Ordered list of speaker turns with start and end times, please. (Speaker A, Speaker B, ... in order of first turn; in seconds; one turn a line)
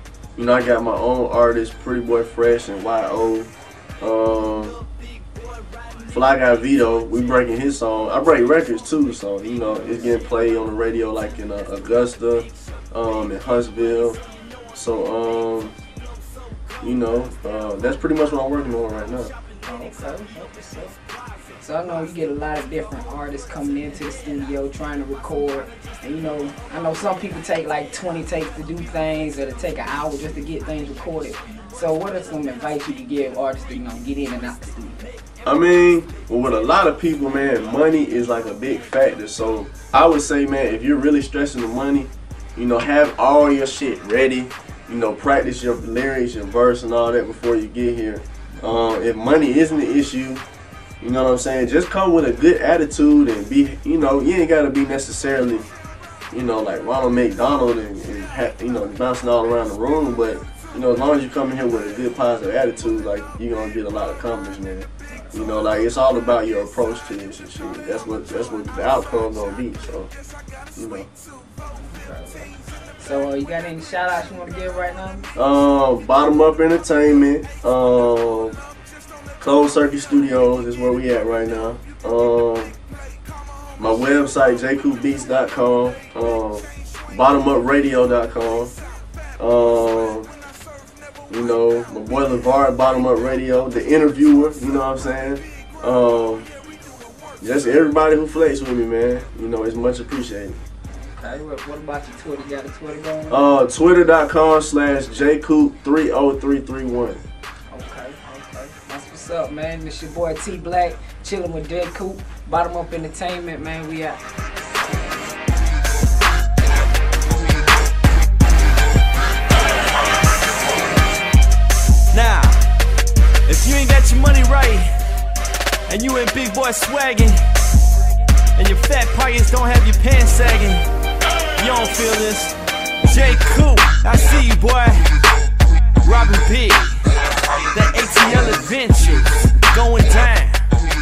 Speaker A: 0.3-4.8
Speaker A: 6.1-14.2
Speaker B: 9.7-10.1
Speaker A: 14.7-15.7
Speaker A: 16.8-19.3
Speaker B: 19.6-21.0
Speaker B: 21.6-35.1
Speaker A: 35.4-50.4
Speaker B: 48.5-48.9
Speaker A: 51.0-55.6
Speaker A: 56.3-70.1
Speaker B: 65.1-65.4
Speaker A: 70.8-71.1
Speaker B: 71.7-75.3
Speaker A: 75.3-78.6
Speaker A: 79.4-82.7
Speaker A: 83.8-88.7
Speaker A: 89.4-90.3
Speaker A: 91.3-96.5
Speaker A: 97.4-100.6
Speaker B: 100.9-103.4
Speaker A: 103.3-107.2
Speaker B: 107.7-114.2
Speaker C: 122.1-122.7
Speaker C: 123.5-125.0
Speaker C: 125.9-127.5
Speaker C: 128.6-130.9
Speaker C: 131.6-135.1
Speaker C: 136.0-137.0
Speaker C: 137.7-140.7